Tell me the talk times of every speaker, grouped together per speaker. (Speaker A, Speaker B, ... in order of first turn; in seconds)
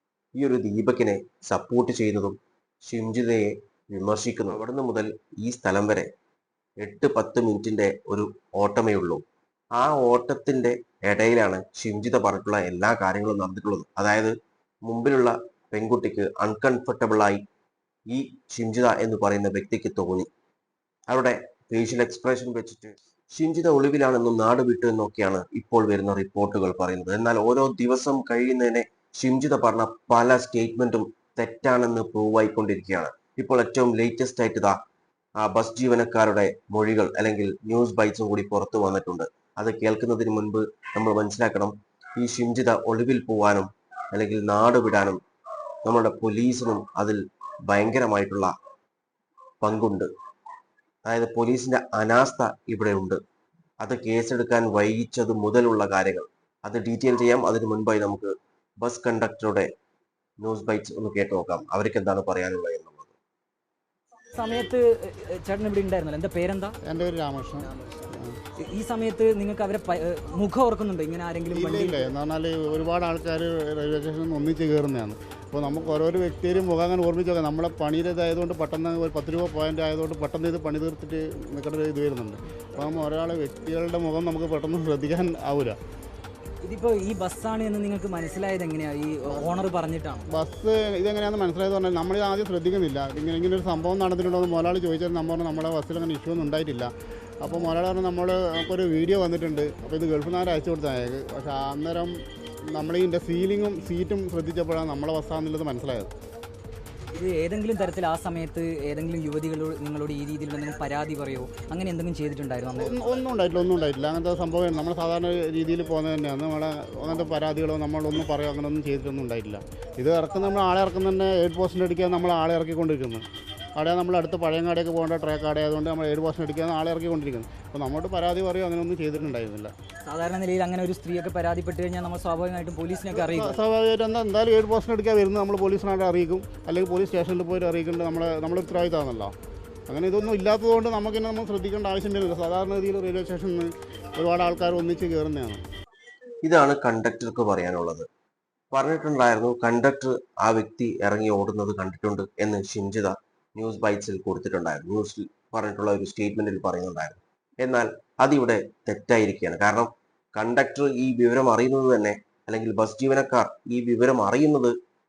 Speaker A: 0.4-6.1, 6.8-9.2, 9.8-14.3, 14.9-17.4, 18.1-20.3, 21.1-34.8, 35.4-45.2, 45.9-48.5, 49.6-50.1, 51.1-53.2, 53.8-59.7, 60.4-63.1, 146.4-148.1, 148.7-164.7
Speaker B: 64.3-66.7, 68.6-72.1, 86.6-90.2, 107.1-113.1, 130.1-133.6
Speaker C: 66.9-68.3, 71.5-85.8, 90.3-102.2, 102.7-106.1, 112.8-123.2, 123.8-129.7, 133.1-139.3, 139.9-145.6